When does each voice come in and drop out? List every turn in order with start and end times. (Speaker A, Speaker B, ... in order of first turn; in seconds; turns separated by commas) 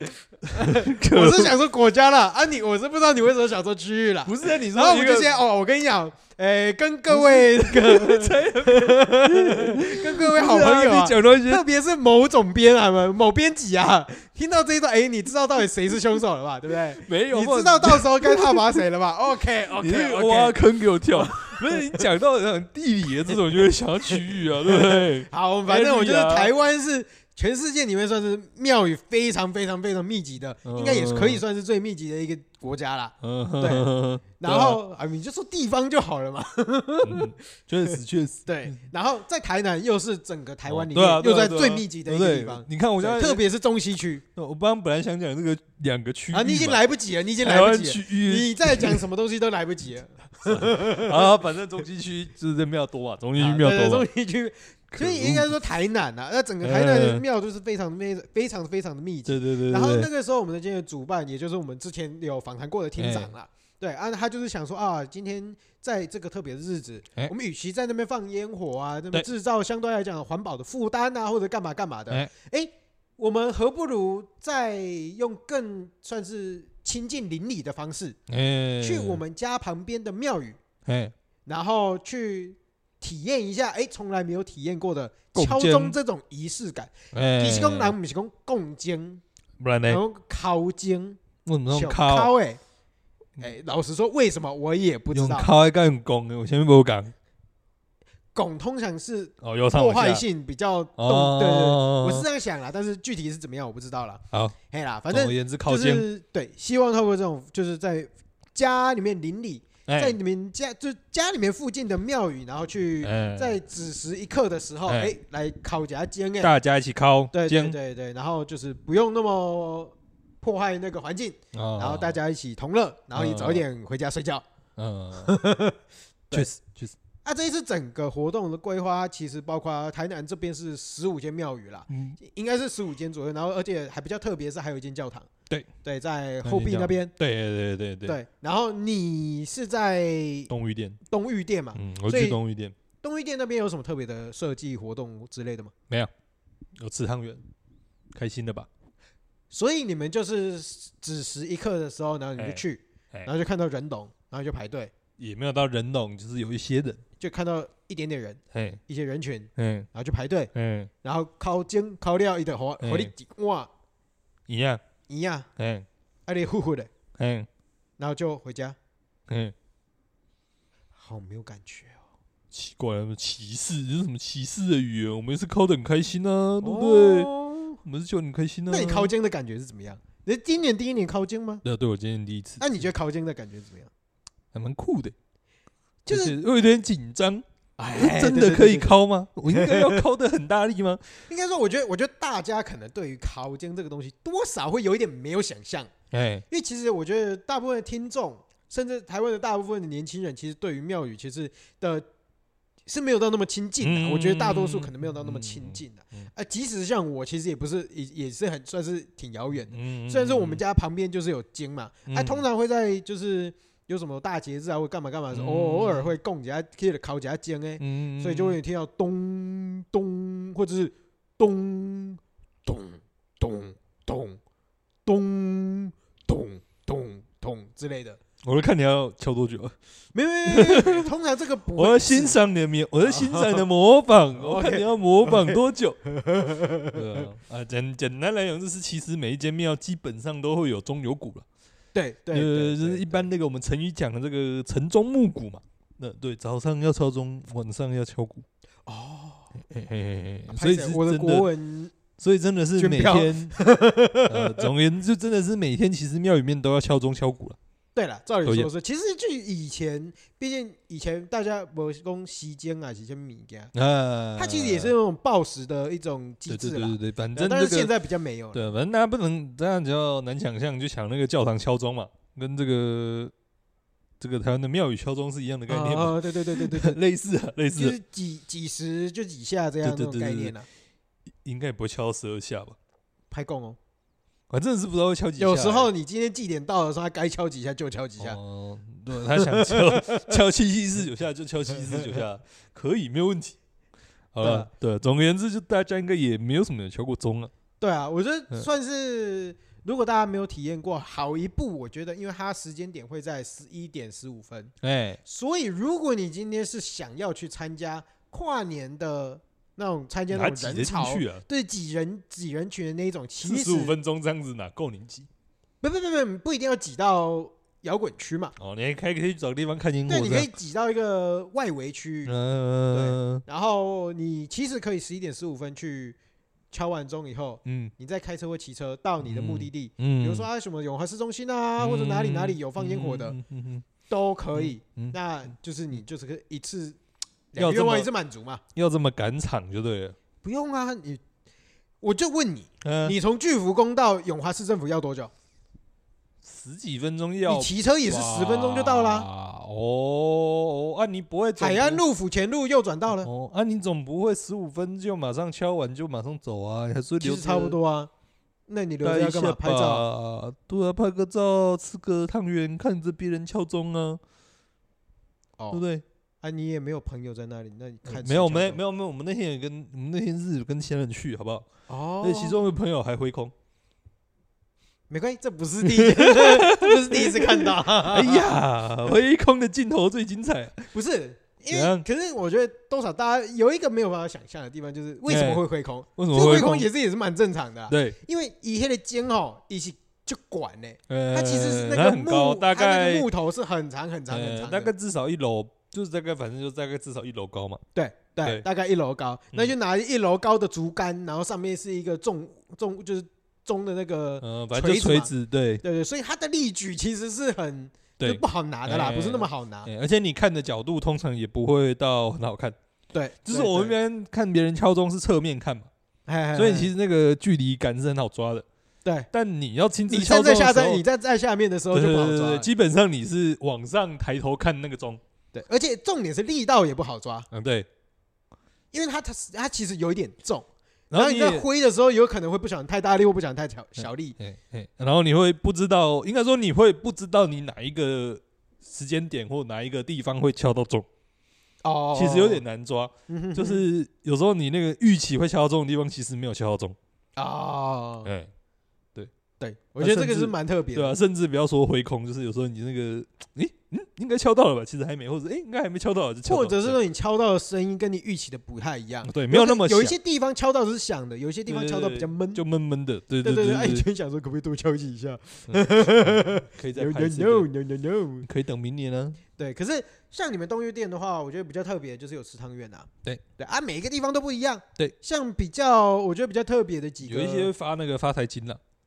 Speaker A: 0.4-22.1, Speaker B: 0.5-1.6, Speaker B: 4.2-5.4, Speaker B: 7.1-11.6, Speaker B: 17.0-18.8, Speaker B: 19.8-26.5, Speaker A: 24.1-44.2, Speaker B: 30.7-31.4, Speaker B: 33.2-34.8, Speaker B: 37.0-38.8, Speaker B: 40.7-43.4, Speaker B: 44.4-46.8, Speaker A: 46.3-51.3, Speaker B: 47.4-49.0, Speaker B: 50.4-54.1, Speaker A: 53.4-78.2, Speaker B: 54.9-55.5, Speaker B: 56.6-57.2, Speaker B: 59.3-60.1, Speaker B: 63.0-63.3, Speaker B: 78.3-79.2, Speaker A: 78.8-80.6, Speaker B: 80.8-81.1, Speaker A: 81.5-89.2, Speaker B: 85.3-86.0, Speaker B: 87.1-88.0, Speaker B: 89.6-90.0, Speaker A: 89.9-91.2, Speaker B: 91.5-92.3, Speaker A: 91.7-92.6, Speaker A: 93.4-95.5, Speaker B: 95.1-97.1, Speaker A: 98.3-116.5, Speaker B: 99.4-100.2, Speaker B: 101.0-102.3, Speaker B: 105.1-106.1, Speaker B: 109.9-110.2, Speaker B: 113.0-113.6, Speaker B: 114.9-115.1, Speaker B: 116.4-117.8, Speaker A: 117.3-124.4, Speaker B: 121.5-122.2, Speaker B: 123.2-123.6, Speaker B: 124.8-125.3, Speaker A: 125.1-125.8, Speaker B: 126.3-127.0, Speaker A: 127.2-135.3, Speaker B: 131.9-132.2, Speaker A: 135.8-137.1, Speaker B: 136.4-138.2, Speaker A: 138.1-140.5, Speaker B: 140.5-141.0, Speaker A: 141.1-142.4, Speaker B: 141.8-142.8, Speaker A: 143.0-145.7, Speaker B: 146.8-147.4, Speaker B: 148.1-148.7, Speaker A: 149.5-154.9, Speaker B: 152.4-152.6, Speaker B: 155.2-157.0, Speaker A: 157.2-160.5, Speaker B: 158.5-158.8, Speaker B: 159.6-159.9, Speaker B: 160.5-160.9, Speaker A: 161.0-163.7, Speaker B: 162.8-163.1, Speaker B: 164.5-164.8, Speaker A: 165.1-165.5, Speaker B: 165.6-165.9, Speaker A: 166.3-166.9, Speaker B: 167.2-167.5, Speaker A: 168.0-168.8, Speaker B: 169.3-169.5, Speaker A: 171.0-172.0, Speaker B: 172.5-177.3, Speaker A: 176.6-177.8, Speaker B: 177.8-179.1, Speaker A: 178.7-181.6, Speaker B: 181.6-182.9, Speaker A: 182.6-183.9, Speaker B: 184.5-185.2, Speaker B: 186.1-187.4, Speaker A: 186.1-186.3, Speaker A: 187.8-190.1, Speaker B: 187.9-191.1, Speaker A: 191.3-195.9, Speaker B: 196.1-196.4, Speaker A: 196.5-202.1, Speaker A: 202.9-224.4, Speaker B: 203.8-206.3, Speaker B: 209.7-210.6, Speaker B: 212.1-212.4, Speaker B: 215.3-216.1, Speaker B: 217.8-218.6, Speaker A: 225.1-228.2, Speaker B: 228.4-229.8, Speaker A: 230.1-232.4, Speaker B: 230.5-231.1, Speaker B: 231.8-236.0, Speaker A: 233.0-233.7, Speaker A: 234.3-237.3, Speaker B: 236.9-241.4, Speaker A: 241.9-243.3, Speaker B: 242.3-248.4, Speaker A: 248.9-249.5, Speaker B: 249.7-251.5, Speaker A: 250.5-251.9, Speaker B: 252.2-253.6, Speaker A: 252.8-254.7, Speaker B: 254.2-257.6, Speaker A: 257.9-263.7, Speaker B: 258.4-258.7, Speaker B: 263.7-264.9, Speaker A: 264.4-268.7, Speaker B: 266.5-267.9, Speaker B: 268.5-273.3, Speaker B: 274.2-278.0, Speaker A: 275.7-277.0, Speaker A: 277.7-280.7, Speaker B: 279.8-280.5, Speaker B: 281.4-282.8, Speaker A: 283.3-283.8, Speaker B: 284.5-285.9, Speaker A: 285.4-288.4, Speaker B: 288.2-293.6, Speaker A: 289.2-290.4, Speaker A: 291.9-292.2, Speaker B: 294.3-297.5, Speaker A: 294.4-294.7, Speaker A: 297.8-304.7, Speaker B: 304.8-305.2, Speaker A: 305.2-314.0, Speaker B: 310.3-311.4, Speaker B: 313.4-315.3, Speaker A: 315.8-318.6, Speaker B: 318.6-320.5, Speaker A: 320.1-322.4, Speaker B: 322.3-323.4, Speaker A: 322.9-326.2, Speaker A: 326.7-333.4, Speaker B: 327.6-327.9, Speaker B: 329.2-330.5, Speaker B: 331.8-333.9, Speaker A: 334.1-337.0, Speaker B: 334.5-335.2, Speaker A: 337.5-338.6, Speaker B: 337.6-338.1, Speaker B: 338.7-340.2, Speaker A: 340.4-341.2, Speaker A: 342.0-345.3, Speaker B: 342.8-343.2, Speaker B: 346.4-352.0, Speaker A: 347.5-349.3, Speaker A: 351.6-353.3, Speaker B: 353.2-357.8, Speaker A: 357.2-358.1, Speaker A: 358.7-360.1, Speaker B: 359.0-364.2, Speaker A: 365.6-365.8, Speaker B: 365.7-366.0, Speaker A: 366.4-368.8, Speaker B: 368.1-371.7, Speaker A: 371.9-372.6, Speaker B: 372.2-373.5, Speaker A: 375.1-378.6, Speaker B: 375.8-380.9, Speaker A: 380.9-394.9, Speaker B: 381.7-382.1, Speaker B: 385.3-385.6, Speaker B: 386.2-386.9, Speaker B: 387.9-388.2, Speaker B: 391.1-393.3, Speaker B: 394.3-397.8, Speaker A: 397.9-409.9, Speaker B: 404.4-405.8, Speaker B: 408.2-412.8, Speaker A: 413.1-413.9, Speaker B: 413.4-415.9, Speaker A: 416.3-416.9, Speaker B: 416.5-418.6, Speaker B: 419.3-421.0, Speaker A: 420.1-422.7, Speaker B: 421.9-425.2, Speaker A: 425.5-427.5, Speaker B: 427.5-427.9, Speaker A: 428.9-434.4, Speaker B: 431.1-431.7, Speaker B: 434.0-441.1, Speaker A: 441.8-442.6, Speaker B: 442.1-447.0, Speaker A: 443.3-443.8, Speaker A: 447.4-448.3, Speaker B: 448.2-448.5, Speaker A: 449.6-451.1, Speaker B: 450.0-457.0, Speaker A: 456.4-462.6, Speaker B: 459.2-460.2, Speaker B: 461.7-464.1, Speaker A: 463.4-468.5, Speaker B: 465.7-467.7, Speaker B: 468.4-469.4, Speaker A: 469.6-477.7, Speaker B: 477.2-478.8